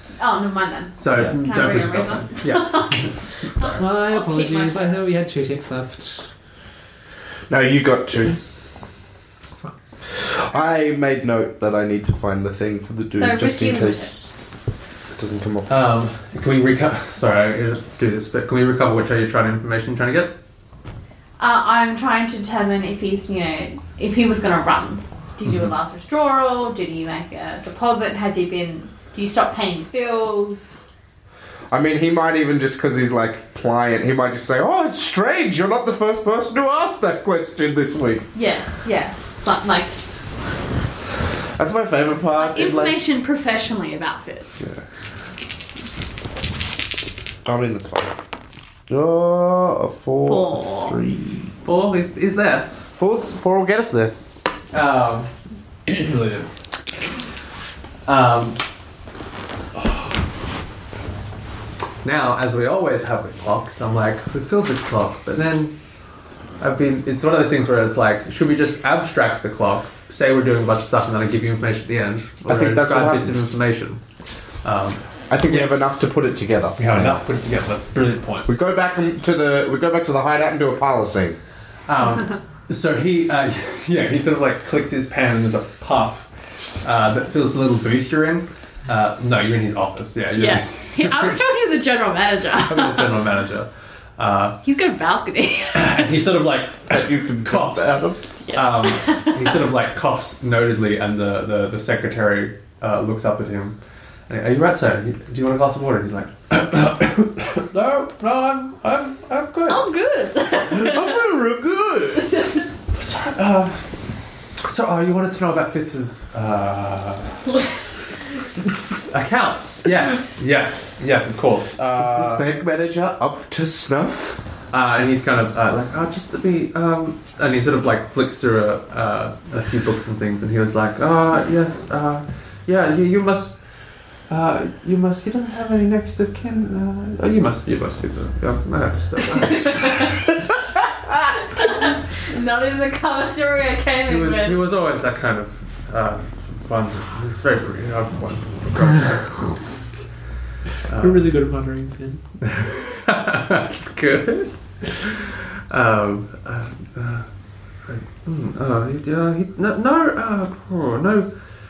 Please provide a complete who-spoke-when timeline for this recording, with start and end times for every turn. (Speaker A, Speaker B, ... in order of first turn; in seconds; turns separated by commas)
Speaker A: 0.2-5.1, Speaker B: 1.0-3.8, Speaker C: 3.8-6.3, Speaker D: 7.5-8.4, Speaker D: 10.2-14.3, Speaker A: 13.2-14.2, Speaker D: 15.2-15.7, Speaker B: 15.7-20.4, Speaker A: 21.4-30.6, Speaker D: 31.7-38.3, Speaker A: 38.3-40.0, Speaker D: 41.6-43.0, Speaker A: 42.4-44.6, Speaker D: 47.5-48.1, Speaker D: 48.9-51.5, Speaker A: 50.2-51.0, Speaker B: 51.6-52.7, Speaker D: 52.9-54.1, Speaker B: 54.7-55.3, Speaker B: 55.9-56.5, Speaker B: 58.0-58.6, Speaker B: 59.8-60.1, Speaker B: 62.0-65.8, Speaker B: 66.6-74.0, Speaker D: 72.5-73.5, Speaker B: 74.6-75.9, Speaker D: 75.3-77.2, Speaker B: 76.8-78.5, Speaker D: 78.5-81.4, Speaker B: 81.9-86.3, Speaker B: 86.8-91.5, Speaker A: 90.4-93.2, Speaker B: 92.6-94.6, Speaker A: 94.6-96.1, Speaker B: 95.7-98.0, Speaker D: 96.9-98.2, Speaker A: 98.5-99.6, Speaker B: 98.5-103.8, Speaker B: 104.3-109.8, Speaker A: 109.7-111.2, Speaker D: 110.5-112.3, Speaker A: 112.2-112.7, Speaker B: 113.0-117.5, Speaker B: 119.1-122.5, Speaker D: 122.0-124.4, Speaker B: 124.7-133.6, Speaker B: 134.3-140.2, Speaker A: 139.4-140.2, Speaker A: 141.5-144.6, Speaker B: 144.1-149.6, Speaker B: 150.9-151.3, Speaker C: 151.0-152.2, Speaker B: 152.4-157.3, Speaker B: 157.9-161.3